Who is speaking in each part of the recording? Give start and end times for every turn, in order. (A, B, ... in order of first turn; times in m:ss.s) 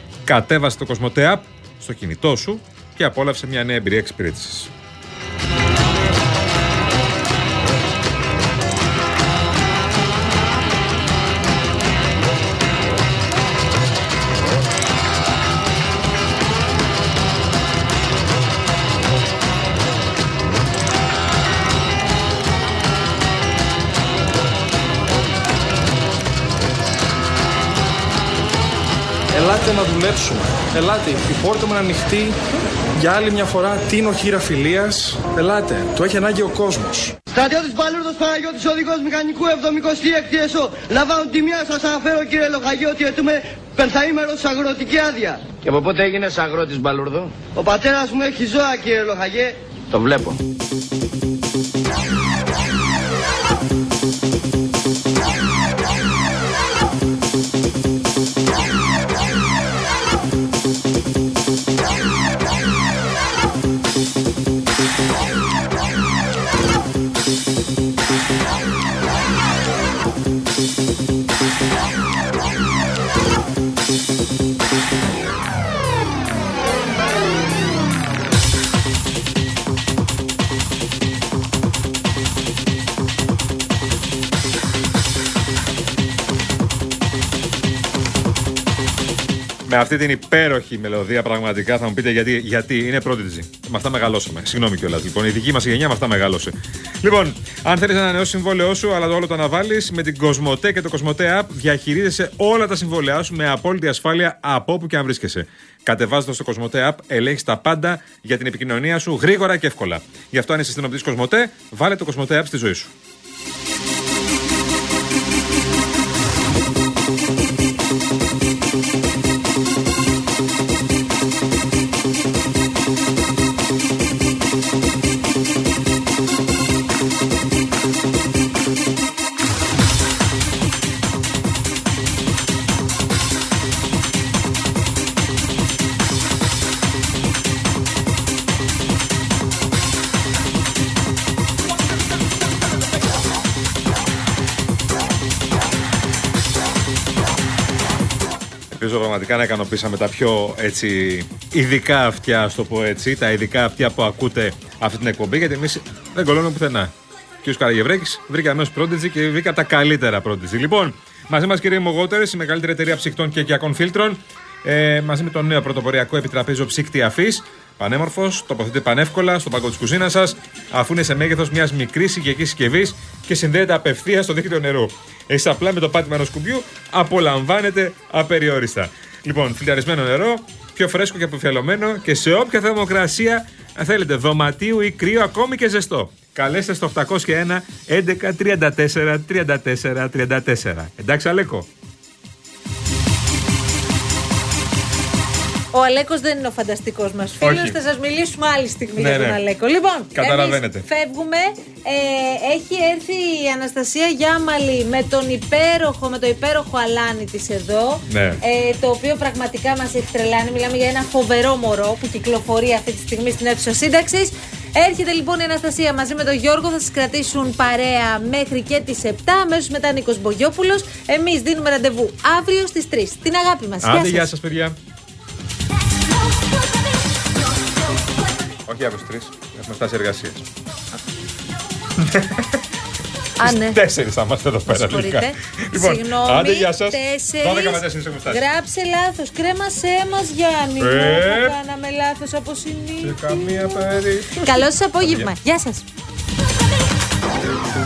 0:00.3-0:04.7 A
0:29.4-0:32.4 B
0:33.0-0:37.1 B
0:37.3-0:45.4 C
0:45.7-0:47.2 D
0:47.6-0:49.6 C
0:49.9-0:50.3 D
1:29.7-1:52.9 A
2:28.7-2:36.9 A
2:37.4-3:11.7 A
3:15.7-3:44.3 E
3:17.4-3:17.8 A
3:19.0-3:19.4 A
3:20.1-3:20.9 A
3:28.1-3:28.4 A
3:43.8-3:44.8 A
3:48.7-3:50.4 A
3:52.0-3:52.6 A
3:53.4-3:53.8 E
3:53.4-3:58.4 A
3:54.7-4:03.8 E
4:00.8-4:01.6 A
4:03.0-4:05.3 A
4:04.4-4:05.8 E